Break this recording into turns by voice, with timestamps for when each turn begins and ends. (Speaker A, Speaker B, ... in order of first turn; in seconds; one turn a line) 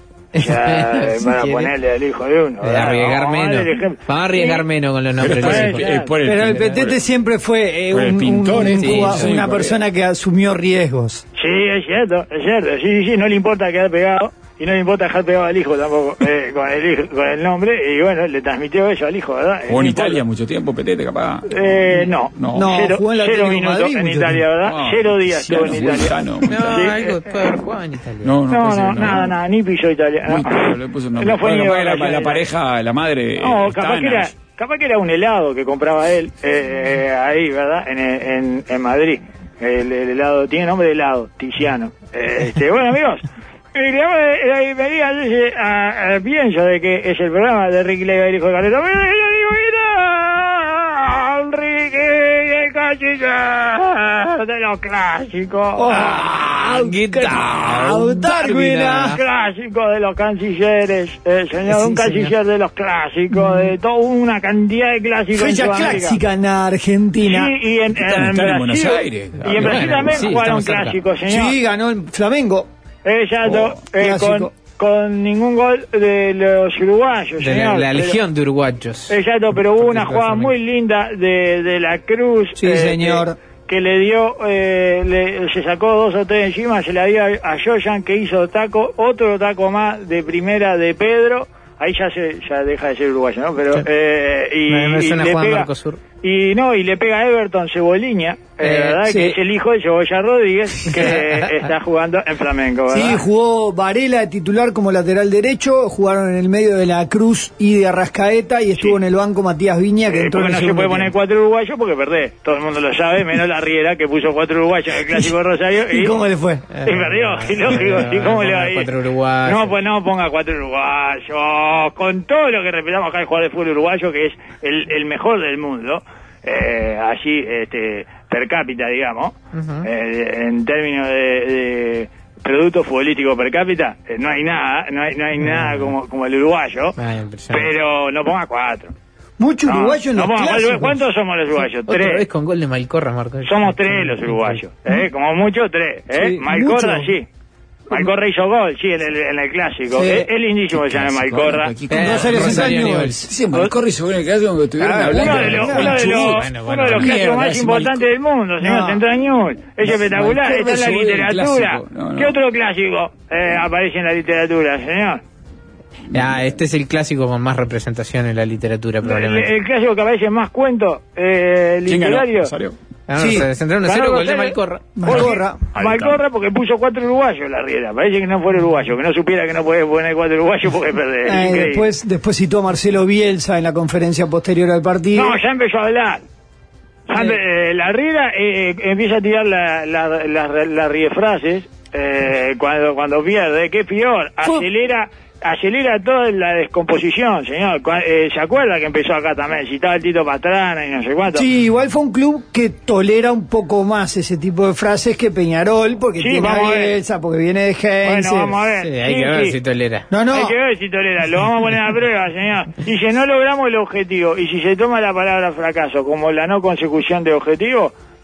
Speaker A: 0.3-1.7
Speaker B: 0.3-4.7
Speaker A: 2.6-5.9
Speaker C: 5.2-7.0
Speaker B: 5.3-6.1
Speaker D: 6.2-11.2
Speaker C: 7.9-9.8
Speaker A: 8.6-9.2
Speaker B: 11.3-20.2
Speaker C: 19.7-21.8
Speaker B: 21.5-27.2
Speaker C: 22.3-22.7
Speaker D: 22.5-24.4
Speaker C: 24.6-26.9
Speaker A: 26.4-28.4
Speaker C: 28.2-29.4
Speaker B: 28.5-32.5
Speaker C: 30.3-34.3
Speaker B: 33.4-55.9
Speaker D: 55.8-59.2
Speaker A: 55.9-59.2
Speaker B: 59.0-66.2
Speaker A: 61.7-62.3
Speaker D: 65.3-67.5
Speaker B: 67.2-71.5
Speaker C: 68.0-70.3
Speaker A: 69.4-71.0
Speaker D: 71.3-72.7
Speaker B: 73.0-78.2
Speaker D: 73.5-74.5
Speaker A: 77.4-79.1
Speaker B: 79.1-95.7
Speaker A: 79.8-80.5
Speaker D: 82.5-83.4
Speaker A: 94.7-96.0
Speaker B: 96.2-103.2
Speaker A: 98.6-99.0
Speaker D: 99.0-99.4
Speaker A: 101.0-101.5
Speaker D: 102.9-111.1
Speaker B: 110.1-116.2
Speaker D: 115.9-116.7
Speaker A: 116.7-119.8
Speaker B: 116.8-118.9
Speaker B: 119.5-137.0
Speaker A: 129.5-129.9
Speaker A: 135.4-135.9
Speaker A: 137.0-137.7
Speaker B: 137.5-138.9
Speaker D: 139.4-141.0
Speaker B: 139.7-142.2
Speaker A: 141.9-144.6
Speaker B: 143.4-147.2
Speaker D: 146.1-147.1
Speaker B: 147.9-151.7
Speaker D: 149.9-150.3
Speaker C: 150.7-158.0
Speaker A: 151.9-153.2
Speaker D: 151.9-153.3
Speaker D: 154.8-156.1
Speaker B: 155.1-165.2
Speaker A: 156.1-157.2
Speaker D: 158.6-159.0
Speaker C: 159.8-162.3
Speaker A: 166.1-169.5
Speaker B: 169.0-172.5
Speaker C: 171.8-172.8
Speaker A: 173.1-175.0
Speaker D: 173.2-173.5
Speaker B: 173.8-181.9
Speaker D: 174.9-175.6
Speaker C: 175.1-176.2
Speaker D: 181.2-185.4
Speaker B: 185.1-186.2
Speaker B: 187.1-201.5
Speaker D: 201.3-208.6
Speaker B: 206.2-207.0
Speaker B: 208.0-209.6
Speaker A: 208.8-210.1
Speaker D: 210.1-210.5
Speaker B: 210.3-217.9